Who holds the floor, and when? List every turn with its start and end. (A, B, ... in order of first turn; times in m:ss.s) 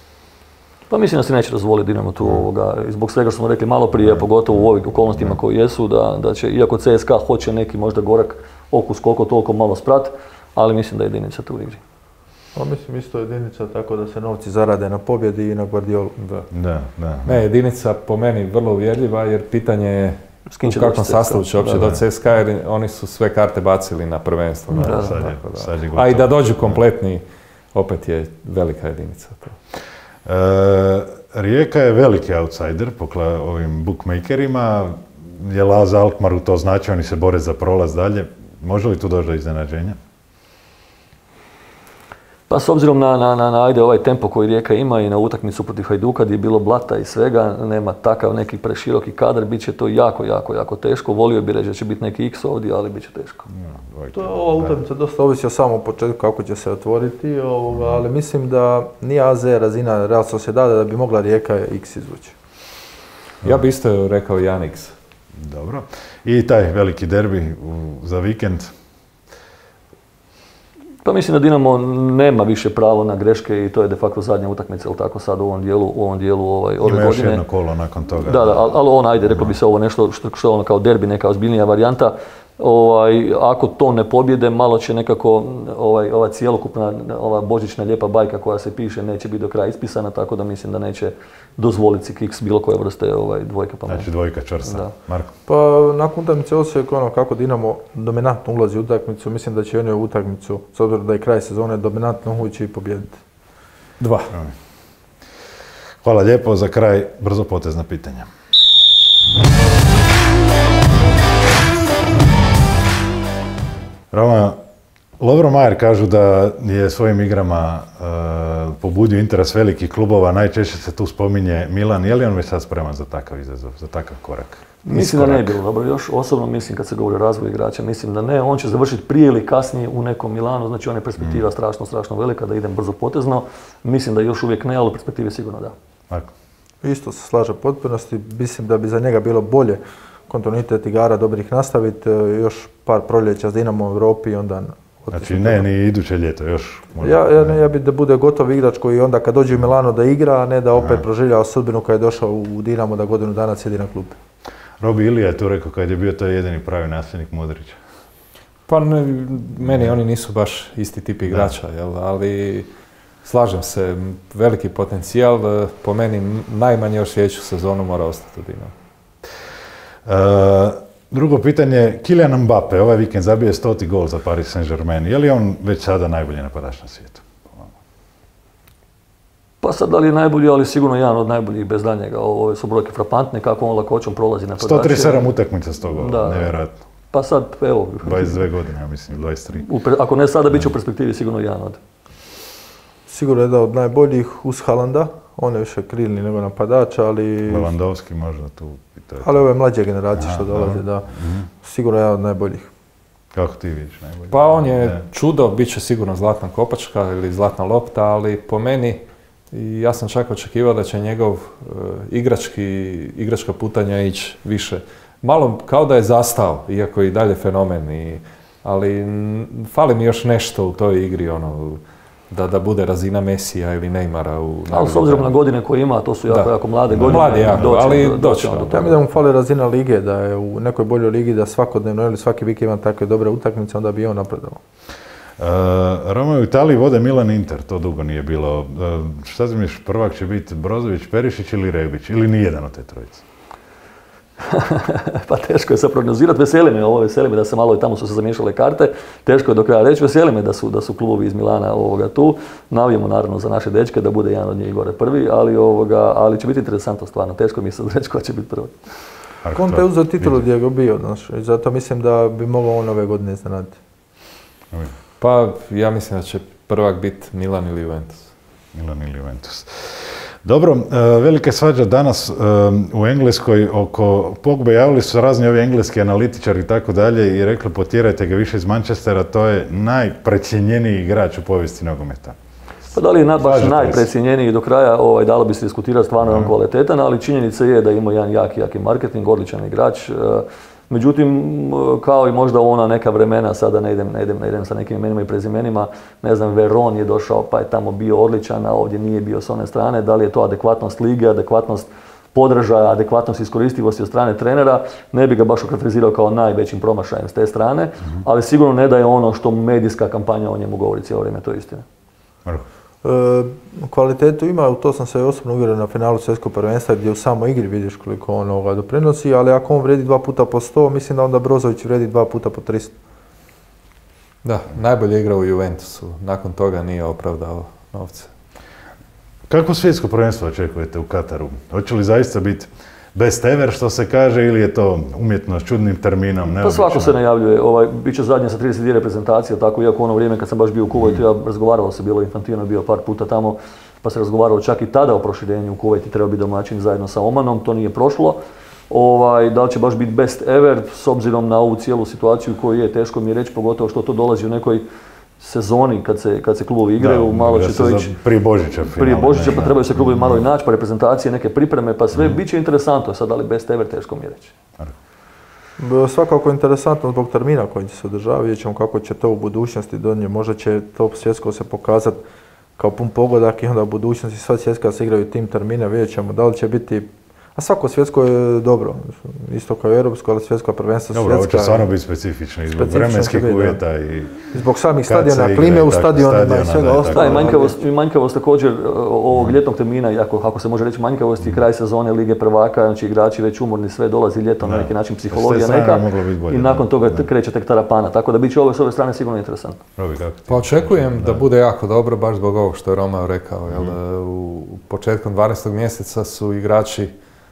0:00.9-0:11.8 A
0:12.6-0:16.1 B
0:16.2-0:16.5 C
0:16.5-0:17.4 D
0:17.2-0:27.2 C
0:20.5-0:21.8 A
0:21.7-0:22.0 D
0:24.7-0:25.2 A
0:24.8-0:26.8 D
0:27.7-0:29.6 C
0:30.2-0:40.0 D
0:42.5-0:53.5 A
0:53.5-0:54.8 D
0:54.1-1:02.3 B
0:57.7-0:58.0 D
1:03.4-1:04.9 C
1:05.3-1:08.7 D
1:11.0-1:17.4 A
1:16.8-1:18.6 D
1:18.2-1:34.1 A
1:33.9-1:35.3 D
1:34.6-1:34.9 A
1:35.5-1:43.2 B
1:44.0-1:44.3 C
1:46.0-1:48.3 D
1:54.1-1:54.6 D
1:55.2-2:05.6 D
2:04.8-2:15.7 A
2:16.8-2:25.6 B
2:25.1-2:27.6 D
2:27.0-2:34.2 B
2:30.8-2:31.0 D
2:34.8-2:37.8 D
2:38.7-2:42.7 C
2:39.6-2:39.9 D
2:43.2-2:48.7 C
2:50.0-2:57.7 D
2:59.6-3:05.2 A
3:04.6-3:06.8 D
3:05.9-3:06.6 A
3:07.1-3:08.4 A
3:08.0-3:09.6 D
3:09.6-3:11.8 A
3:13.1-3:17.7 B
3:17.5-3:19.4 D
3:19.2-3:22.7 B
3:20.1-3:21.5 D
3:23.3-3:25.0 D
3:24.3-3:45.3 C
3:44.7-3:48.9 A
3:46.3-3:48.9 C
3:46.9-3:47.9 D
3:48.7-3:54.6 B
3:55.4-4:03.2 D
4:04.4-4:18.8 A
4:19.4-4:20.4 D
4:19.5-4:23.8 B
4:25.2-4:28.3 C
4:28.7-4:42.4 D
4:42.9-5:11.8 A
4:43.4-4:44.1 D
4:46.2-4:46.5 D
5:13.0-5:22.9 B
5:24.4-5:28.3 C
5:29.5-5:37.2 D
5:36.6-5:54.8 A
5:55.4-5:58.1 A
5:57.0-6:00.4 D
5:58.9-6:04.5 A
6:05.8-6:12.2 B
6:12.8-6:21.9 B
6:21.1-6:24.5 D
6:22.7-6:23.8 B
6:24.5-6:27.8 B
6:25.0-6:27.6 D
6:27.1-6:39.8 A
6:29.3-6:29.6 D
6:34.6-6:37.3 D
6:40.0-6:41.4 D
6:40.5-6:47.1 C
6:43.7-6:44.0 D